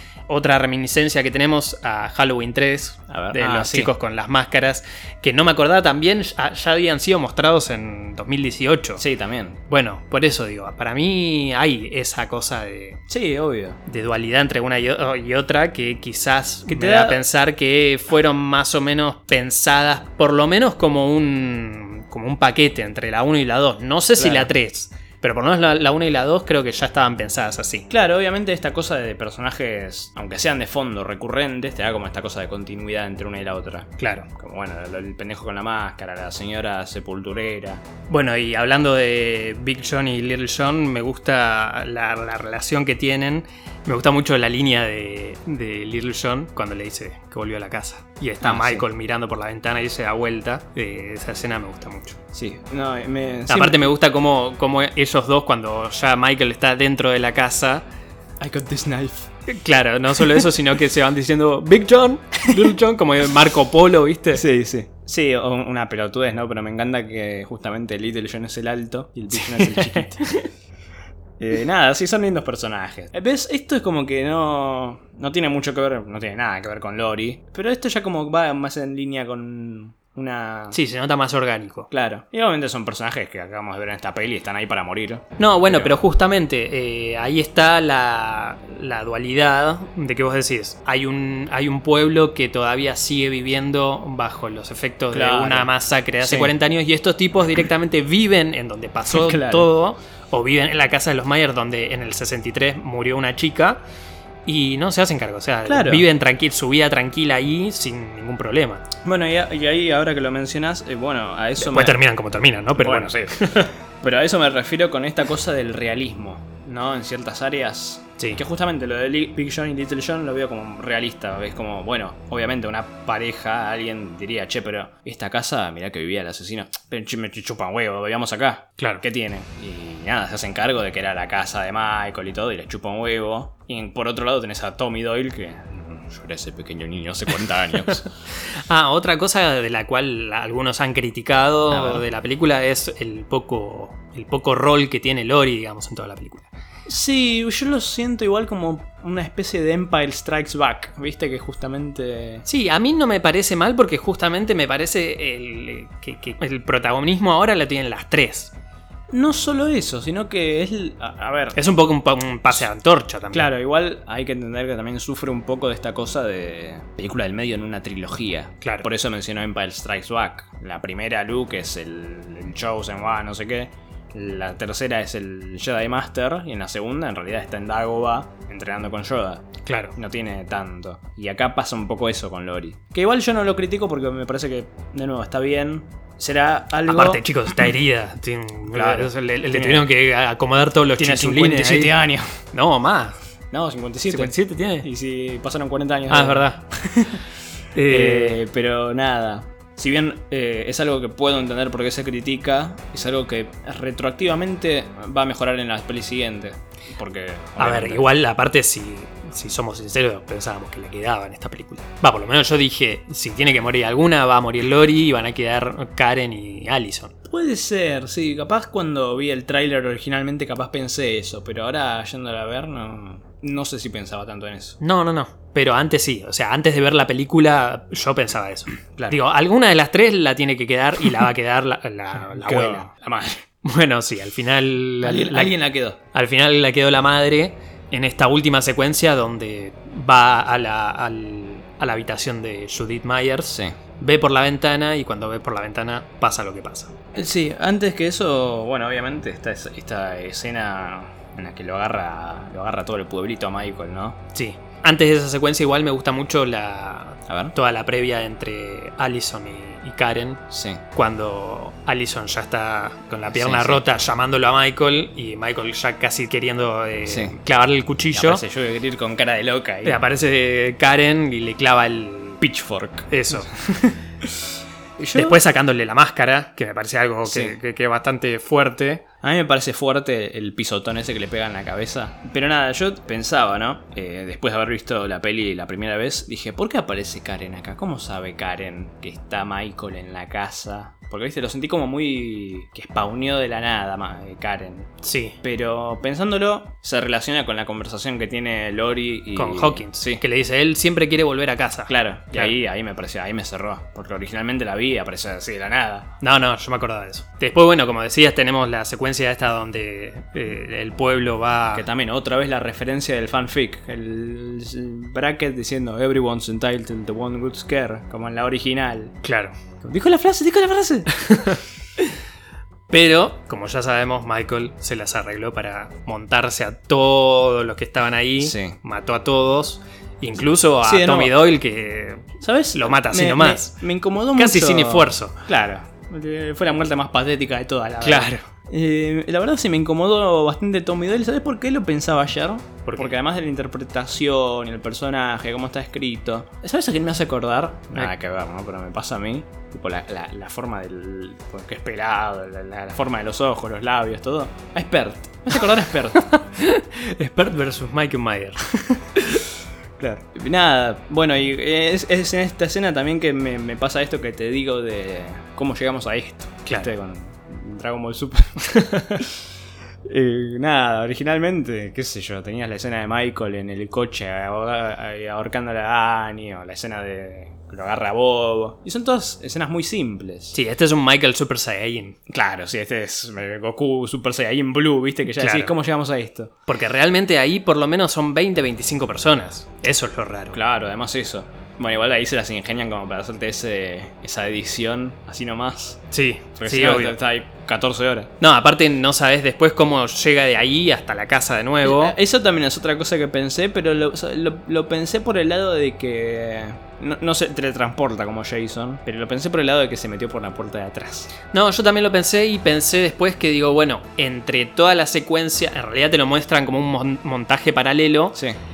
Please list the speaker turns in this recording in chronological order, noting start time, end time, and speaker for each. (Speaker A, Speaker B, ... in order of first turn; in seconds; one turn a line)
Speaker A: 0.3-9.0
Speaker B: 3.1-3.9
Speaker B: 9.0-9.6
Speaker A: 9.7-13.0
Speaker B: 13.1-13.8
Speaker A: 13.8-27.9
Speaker B: 16.7-17.2
Speaker B: 24.2-24.5
Speaker B: 27.9-37.8
Speaker A: 34.0-34.3
Speaker A: 38.1-52.2
Speaker B: 48.4-48.8
Speaker B: 52.3-53.9
Speaker A: 53.5-57.8
Speaker B: 58.4-59.3
Speaker A: 59.5-64.4
Speaker B: 64.3-70.3
Speaker A: 69.4-70.5
Speaker B: 71.4-80.8
Speaker A: 80.7-81.9
Speaker B: 81.9-86.0
Speaker A: 85.4-103.8
Speaker B: 95.1-96.5
Speaker B: 99.1-99.7
Speaker A: 104.5-108.8
Speaker B: 105.7-106.0
Speaker B: 109.0-112.0
Speaker A: 111.6-113.7
Speaker B: 112.8-138.1
Speaker A: 138.6-146.5
Speaker B: 141.7-142.1
Speaker B: 146.8-152.4
Speaker A: 152.4-158.5
Speaker B: 159.1-161.6
Speaker A: 161.5-163.5
Speaker B: 163.3-187.2
Speaker A: 179.7-179.9
Speaker A: 186.8-191.9
Speaker B: 188.7-189.9
Speaker B: 191.0-192.4
Speaker A: 192.5-193.1
Speaker B: 193.5-197.2
Speaker A: 194.1-194.9
Speaker A: 196.1-196.6
Speaker A: 197.7-198.4
Speaker B: 197.9-208.1
Speaker A: 207.6-217.1
Speaker B: 217.3-224.8
Speaker A: 224.8-232.9
Speaker B: 232.3-233.4
Speaker A: 233.6-235.5
Speaker B: 235.0-236.0
Speaker A: 236.1-246.9
Speaker B: 243.5-243.8
Speaker B: 247.1-254.2
Speaker A: 254.3-268.4
Speaker B: 257.3-257.5
Speaker B: 260.5-260.8
Speaker B: 263.3-263.8
Speaker B: 267.1-267.4
Speaker B: 268.1-270.0
Speaker A: 269.8-272.4
Speaker B: 272.4-275.4
Speaker A: 273.1-273.5
Speaker A: 275.1-279.0
Speaker B: 277.2-277.6
Speaker B: 279.2-300.2
Speaker A: 295.0-295.4
Speaker A: 299.3-302.5
Speaker B: 301.9-306.1
Speaker A: 306.2-311.8
Speaker B: 311.7-319.2
Speaker A: 319.2-319.5
Speaker B: 319.8-321.2
Speaker A: 321.2-321.6
Speaker A: 322.9-333.8
Speaker B: 328.4-328.8
Speaker B: 330.8-331.3
Speaker B: 332.4-356.2
Speaker A: 334.4-335.4
Speaker A: 338.0-338.4
Speaker A: 356.1-359.4
Speaker B: 360.0-369.4
Speaker A: 368.7-369.2
Speaker B: 370.0-380.6
Speaker A: 380.5-382.2
Speaker B: 382.3-386.5
Speaker A: 385.4-385.7
Speaker A: 386.7-390.6
Speaker B: 390.5-396.0
Speaker A: 396.1-397.2
Speaker B: 396.6-398.3
Speaker A: 398.4-402.1
Speaker B: 401.8-411.3
Speaker A: 411.5-418.4